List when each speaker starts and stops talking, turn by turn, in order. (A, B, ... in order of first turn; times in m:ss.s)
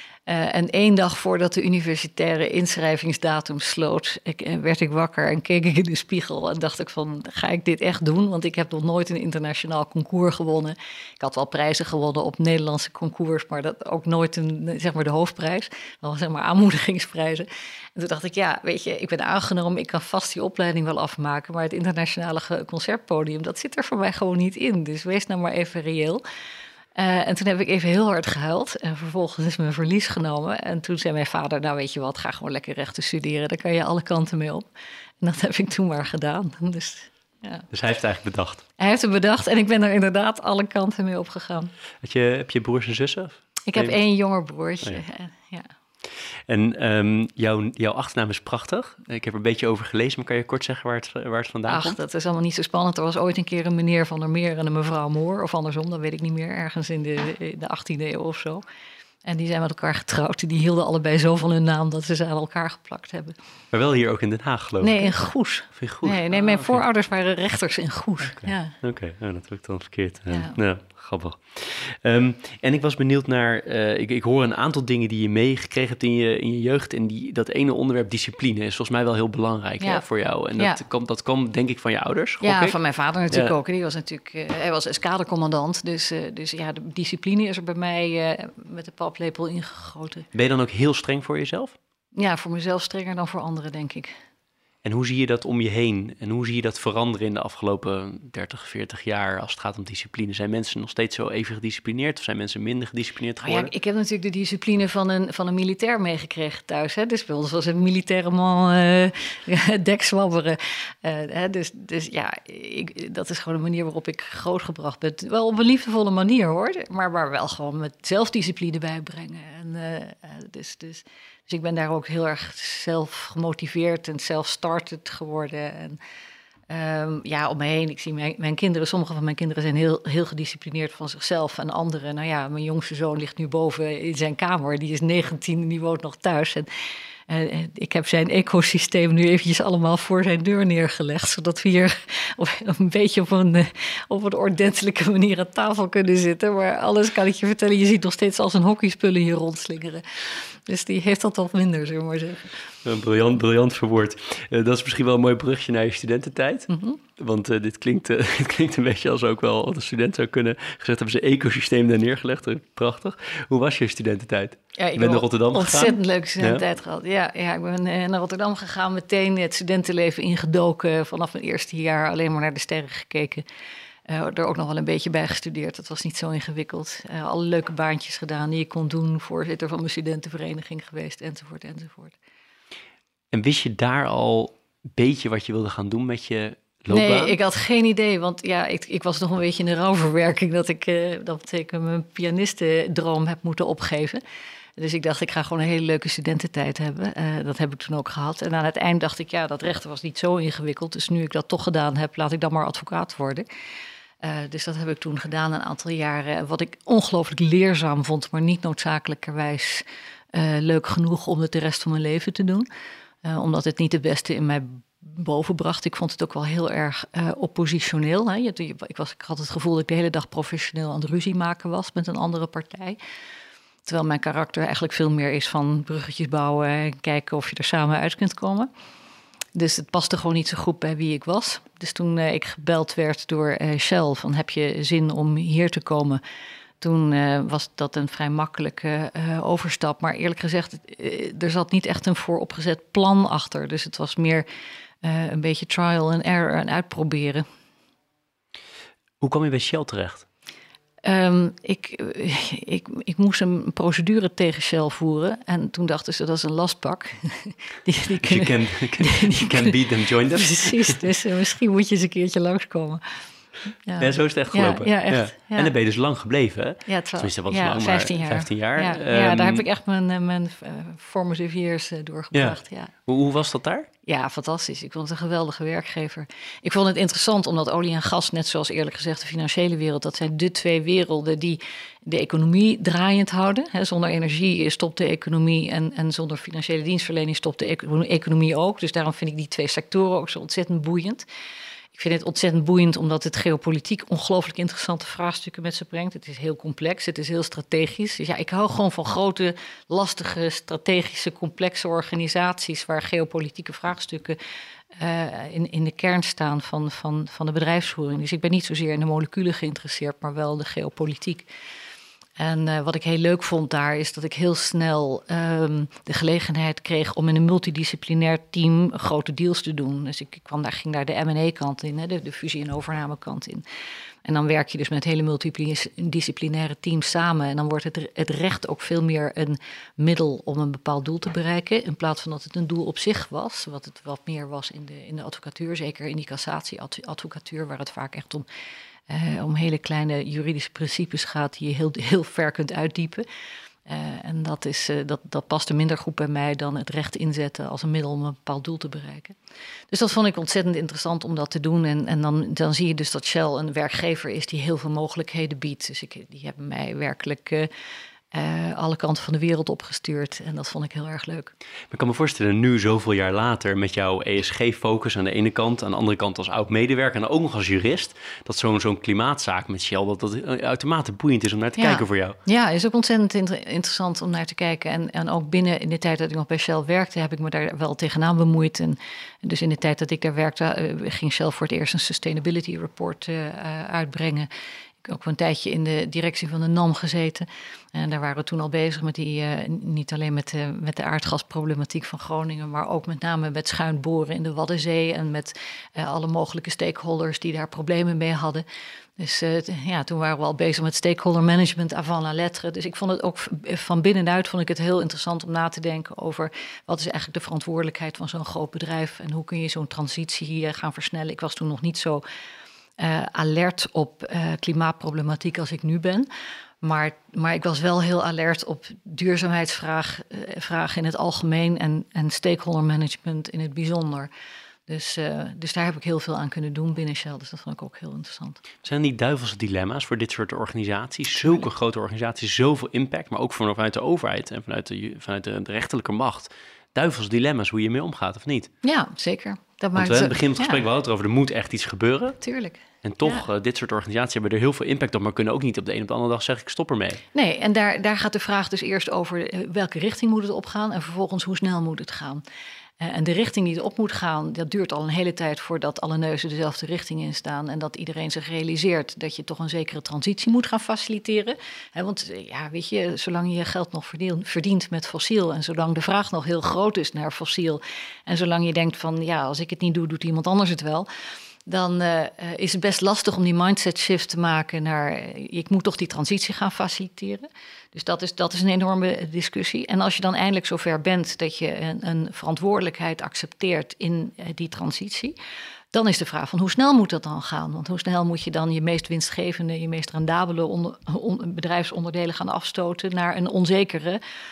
0:00.3-0:26.2 A
0:27.0-0:34.7 A
0:35.2-0:37.7 A
0:37.7-0:38.6 B
0:38.8-0:41.7 A
0:42.0-0:44.0 B
0:43.7-0:45.7 A
0:46.5-0:52.0 B
0:51.7-0:58.6 A
0:59.2-1:03.4 A
1:03.7-1:05.2 B
1:04.8-1:08.8 A
1:05.7-1:06.8 B
1:08.3-1:22.8 B
1:10.3-1:10.6 A
1:22.4-1:30.3 A
1:30.3-1:31.8 B
1:32.2-1:34.1 A
1:34.8-1:43.7 B
1:43.4-2:06.0 A
2:06.7-2:16.7 A
2:17.3-2:32.5 A
2:32.8-2:46.6 B
2:36.7-2:37.0 A
2:44.8-2:53.4 A
2:54.1-3:02.2 A
3:03.3-3:07.4 B
3:06.9-3:14.2 A
3:14.8-3:23.5 A
3:24.2-3:32.7 A
3:33.2-3:43.0 A
3:43.9-3:48.7 A
3:49.6-3:56.2 A
3:56.8-4:04.5 A
4:05.0-4:07.5 A
4:09.2-4:10.3 B
4:11.0-4:19.8 A
4:18.2-4:21.0 B
4:20.3-4:23.2 A
4:23.9-4:25.7 A
4:24.0-4:29.6 B
4:26.9-4:32.9 A
4:32.3-4:33.9 B
4:34.1-4:51.3 A
4:52.0-5:04.4 A
5:05.0-5:11.5 A
5:12.4-5:23.6 A
5:24.2-5:38.4 A
5:39.1-5:43.2 A
5:43.9-5:49.4 A
5:49.9-5:57.7 A
5:58.3-6:01.5 A
6:01.9-6:12.4 B
6:11.8-6:24.5 A
6:25.0-6:38.6 A
6:39.2-6:52.2 A
6:53.0-6:56.3 A
6:56.8-7:04.3 A
7:04.9-7:08.6 A
7:08.8-7:18.7 B
7:11.4-7:11.6 A
7:18.8-7:20.8 A
7:20.0-7:22.4 B
7:22.4-7:23.4 A
7:23.0-7:27.2 B
7:27.3-7:32.4 A
7:33.0-7:51.1 A
7:51.7-8:05.4 A
8:05.9-8:14.2 A